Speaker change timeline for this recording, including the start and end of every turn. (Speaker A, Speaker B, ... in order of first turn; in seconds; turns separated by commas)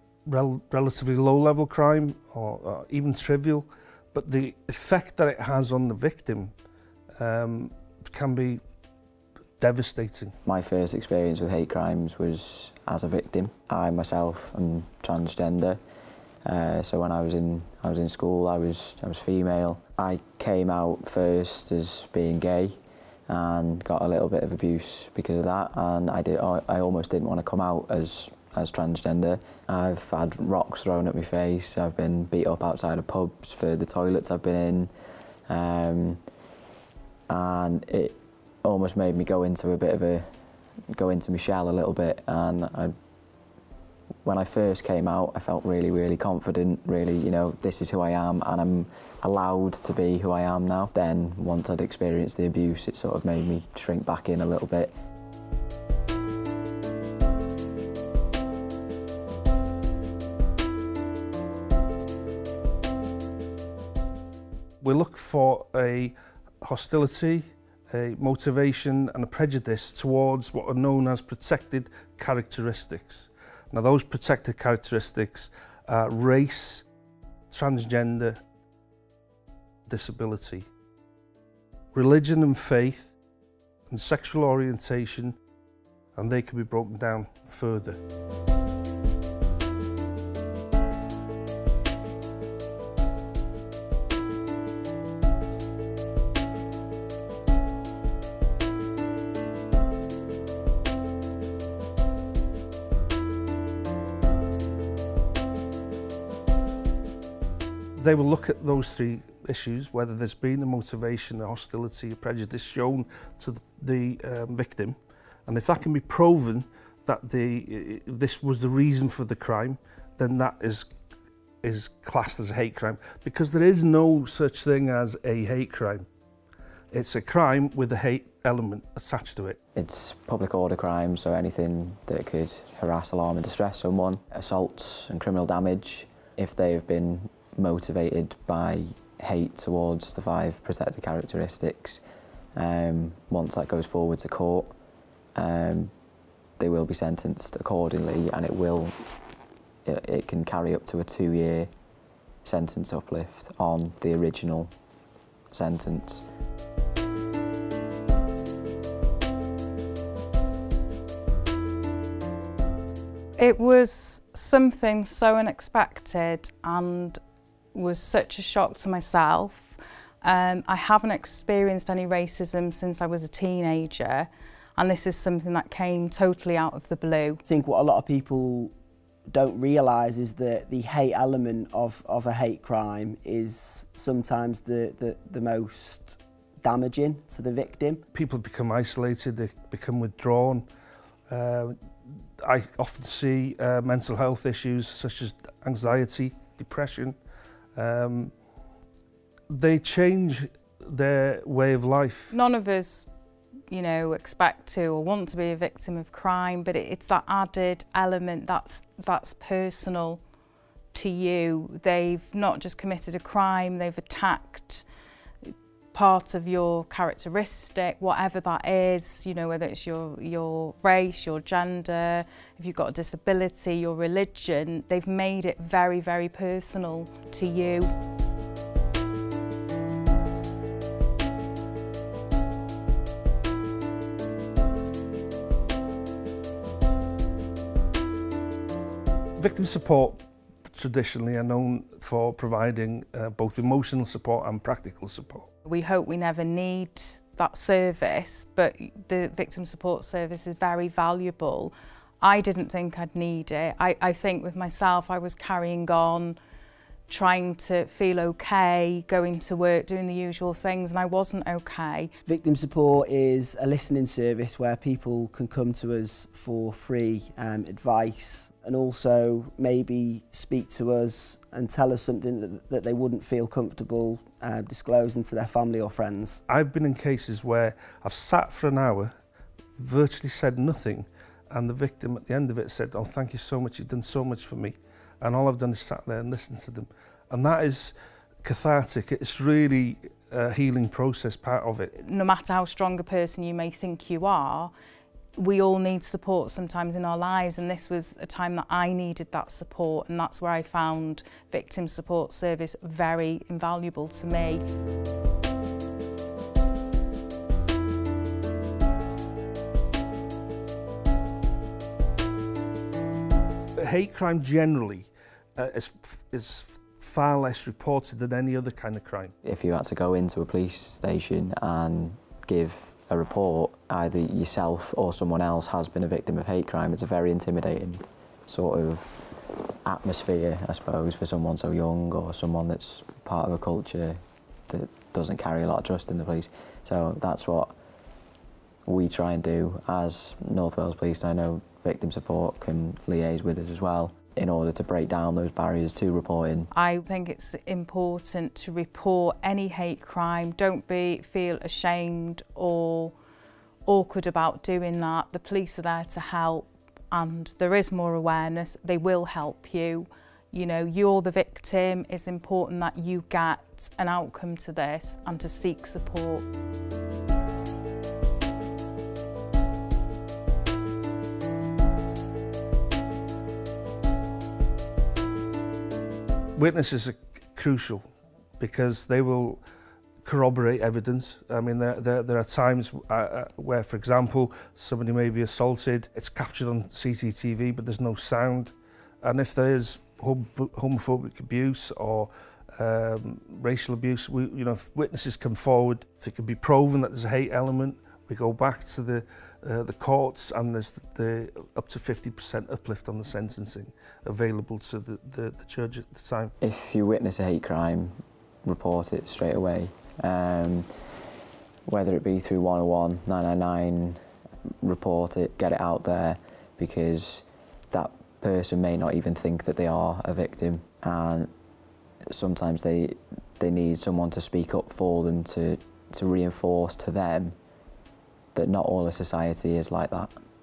Speaker A: 0.3-6.5, Speaker A: 7.2-8.6, Speaker A: 9.6-10.3, Speaker B: 10.4-15.8, Speaker B: 16.4-34.9, Speaker B: 35.5-36.2, Speaker B: 37.3-40.3, Speaker B: 40.9-43.0, Speaker B: 44.2-54.9, Speaker A: 64.8-76.8, Speaker A: 77.5-78.4, Speaker A: 79.9-80.7, Speaker A: 81.9-83.2, Speaker A: 83.9-85.4, Speaker A: 86.2-88.0, Speaker A: 108.0-120.9, Speaker A: 121.6-126.1, Speaker A: 126.9-129.6, Speaker B: 129.8-142.0, Speaker B: 142.6-144.7, Speaker B: 145.4-145.9, Speaker B: 146.6-149.0, Speaker B: 149.8-151.7, Speaker B: 152.4-154.7, Speaker B: 155.5-156.2, Speaker C: 163.4-167.2, Speaker C: 167.7-177.4, Speaker D: 177.5-178.7, Speaker D: 179.3-188.0, Speaker A: 188.1-190.7, Speaker A: 191.3-197.2, Speaker A: 197.8-198.3, Speaker A: 199.5-202.4, Speaker C: 202.3-203.1, Speaker C: 203.7-210.2, Speaker C: 210.9-214.9, Speaker C: 215.9-227.9, Speaker A: 239.4-245.5, Speaker C: 245.7-256.4, Speaker C: 257.1-262.1, Speaker D: 262.3-276.4, Speaker A: 276.5-279.1, Speaker A: 279.8-291.9, Speaker C: 291.9-294.7, Speaker C: 295.4-304.6, Speaker A: 313.8-319.3, Speaker B: 319.4-329.2, Speaker B: 329.9-337.7, Speaker B: 338.9-346.7, Speaker C: 346.7-353.1, Speaker C: 353.9-366.5, Speaker A: 376.6-378.0, Speaker A: 378.6-379.6, Speaker A: 380.2-406.5, Speaker B: 406.6-410.9, Speaker B: 411.9-414.2, Speaker B: 414.8-421.5, Speaker B: 422.3-427.6, Speaker B: 428.6-430.3